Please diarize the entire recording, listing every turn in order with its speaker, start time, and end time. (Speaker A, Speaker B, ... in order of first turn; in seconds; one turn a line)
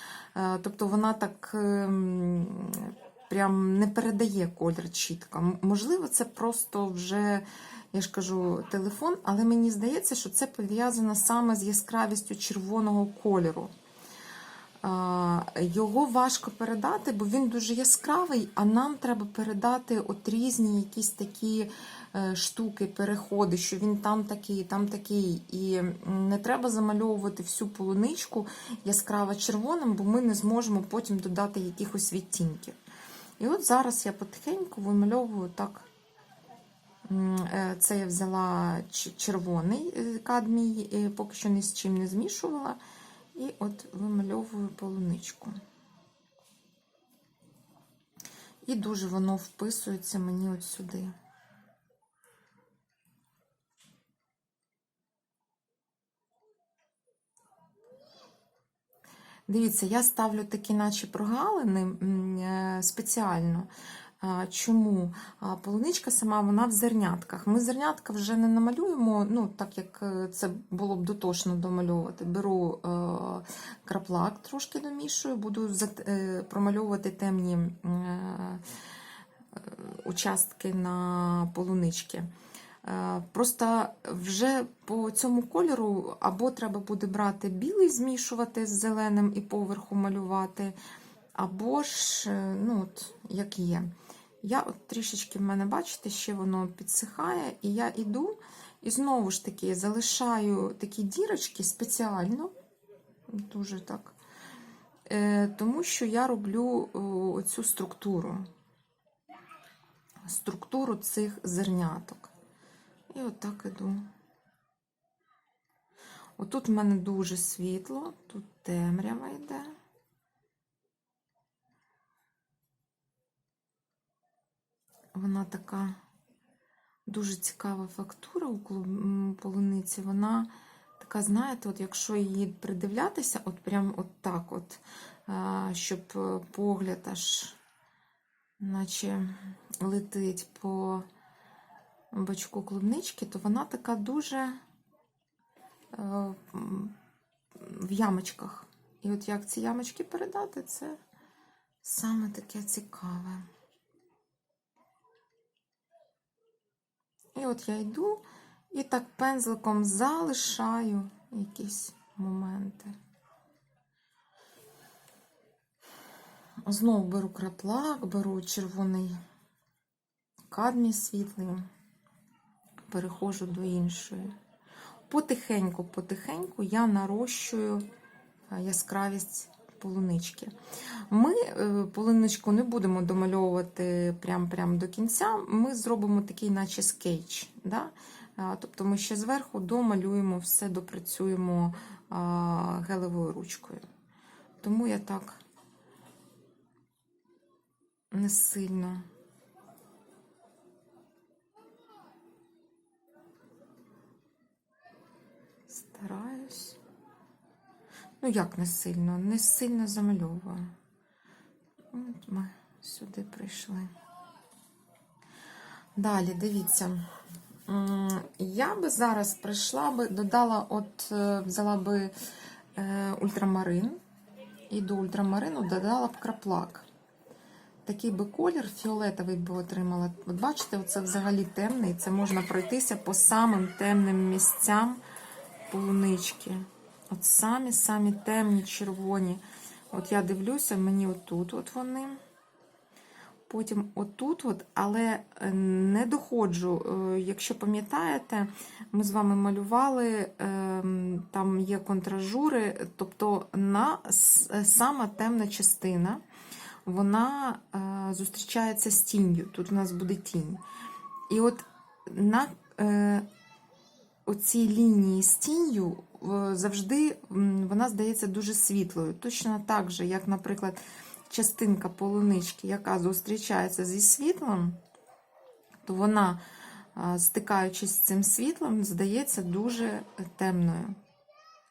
Speaker A: 0.3-13.7
Speaker A: 14.8-32.8
Speaker A: 33.4-35.9
Speaker A: 37.0-42.8
Speaker A: 43.3-45.6
Speaker A: 48.6-51.1
Speaker A: 59.5-63.7
Speaker A: 64.2-78.6
Speaker A: 79.5-82.3
Speaker A: 82.8-90.8
Speaker A: 91.3-102.5
Speaker A: 103.3-104.2
Speaker A: 105.1-108.5
Speaker A: 110.2-112.3
Speaker A: 113.1-114.0
Speaker A: 116.4-119.7
Speaker A: 125.1-126.0
Speaker A: 127.1-137.6
Speaker A: 138.6-141.1
Speaker A: 142.1-144.6
Speaker A: 145.9-146.9
Speaker A: 147.5-151.0
Speaker A: 151.8-153.5
Speaker A: 157.3-162.9
Speaker A: 166.7-169.2
Speaker A: 170.5-171.7
Speaker A: 172.9-174.3
Speaker A: 175.1-177.9
Speaker A: 178.5-180.5
Speaker A: 181.1-193.8
Speaker A: 194.6-195.4
Speaker A: 198.1-199.1
Speaker A: 205.7-206.8
Speaker A: 208.2-210.7
Speaker A: 211.9-213.9
Speaker A: 215.9-217.1
Speaker A: 217.7-222.1
Speaker A: 222.7-224.0
Speaker A: 224.7-226.8
Speaker A: 227.8-235.0
Speaker A: 235.7-242.2
Speaker A: 243.5-256.2
Speaker A: 256.8-260.6
Speaker A: 261.3-263.2
Speaker A: 264.2-274.8
Speaker A: 275.8-276.4
Speaker A: 276.9-281.0